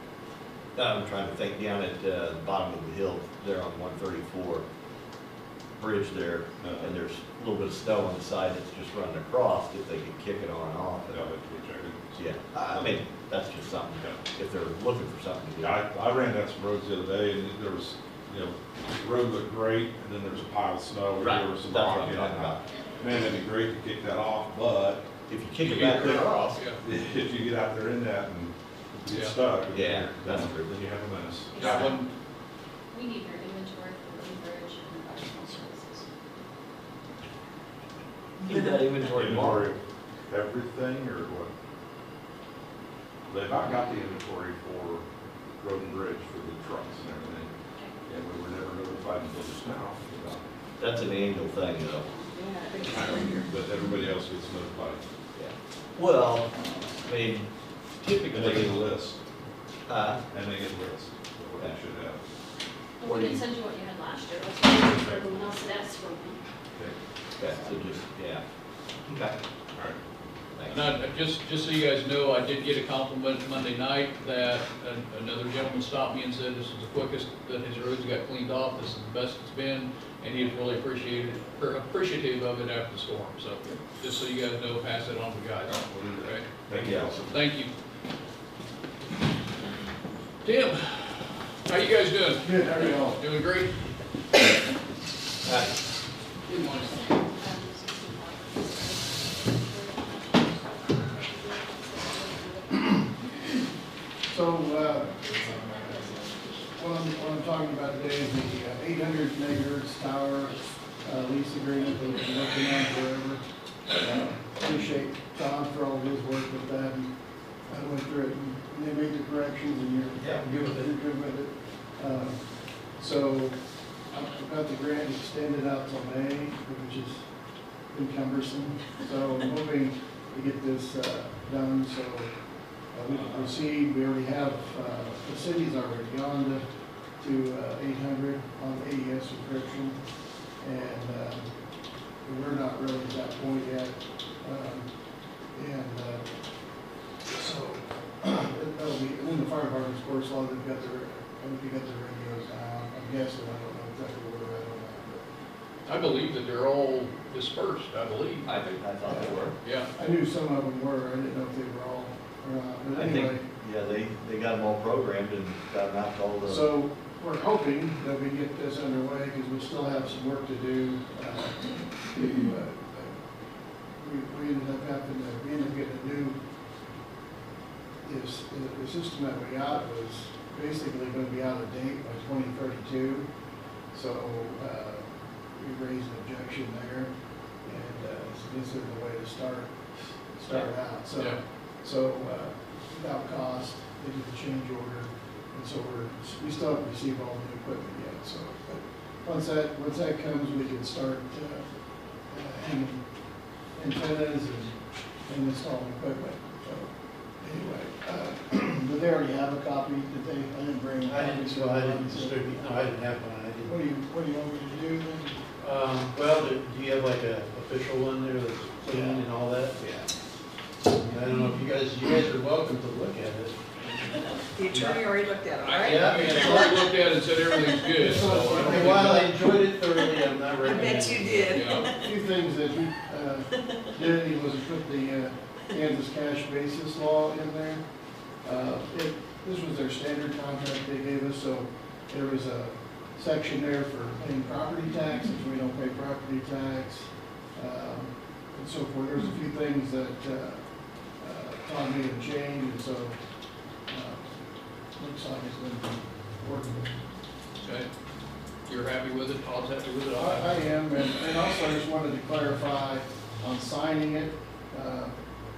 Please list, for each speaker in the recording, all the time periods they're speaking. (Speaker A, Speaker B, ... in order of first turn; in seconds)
Speaker A: 0.8-4.7, 5.8-11.3, 12.2-15.7, 21.2-22.6, 25.3-26.6, 29.7-30.8, 31.6-31.9, 38.4-39.7, 50.8-52.1, 55.4-57.5, 58.0-58.8, 59.9-60.2, 67.4-68.4, 69.1-69.4, 70.6-70.9, 86.7-87.1, 95.4-95.8, 120.2-120.5, 158.4-159.6, 162.9-166.7, 218.9-219.2, 219.8-220.1
Speaker B: 6.6-7.0, 11.1-12.1, 12.7-12.9, 15.6-25.1, 25.7-26.3, 26.8-31.9, 39.1-41.5, 43.3-45.0, 45.6-47.5, 48.0-50.5, 53.0-55.0, 58.3-59.2, 60.3-62.2, 85.7-87.4
Speaker C: 25.6-26.8, 29.1-29.4, 31.6-32.1, 70.7-86.5, 87.2-87.7, 90.4-93.7, 96.5-97.0, 155.9-158.5, 159.6-159.9, 225.6-229.3, 231.5-231.9, 257.6-257.9, 258.7-260.6
Speaker D: 31.5-32.0, 32.9-36.1, 52.1-53.4, 63.0-66.4, 96.7-103.3, 104.9-108.8, 111.8-112.4
Speaker E: 52.3-53.5, 224.6-226.8, 230.6-231.7
Speaker F: 92.4-93.2, 104.2-117.1, 117.7-127.3, 127.9-140.0, 140.6-141.5, 142.2-144.9, 145.5-146.3, 147.3-155.3, 159.1-163.5, 166.4-173.1, 174.0-176.4, 178.0-183.3, 183.9-201.7, 202.3-203.0, 203.7-212.4, 213.7-215.5, 228.2-229.3, 231.7-237.8, 238.4-253.2, 253.9-254.3, 255.0-256.9, 260.1-265.1
Speaker G: 120.2-120.9, 211.1-213.8, 215.6-219.8, 220.8-224.1, 224.7-225.1, 225.8-226.8, 228.0-231.7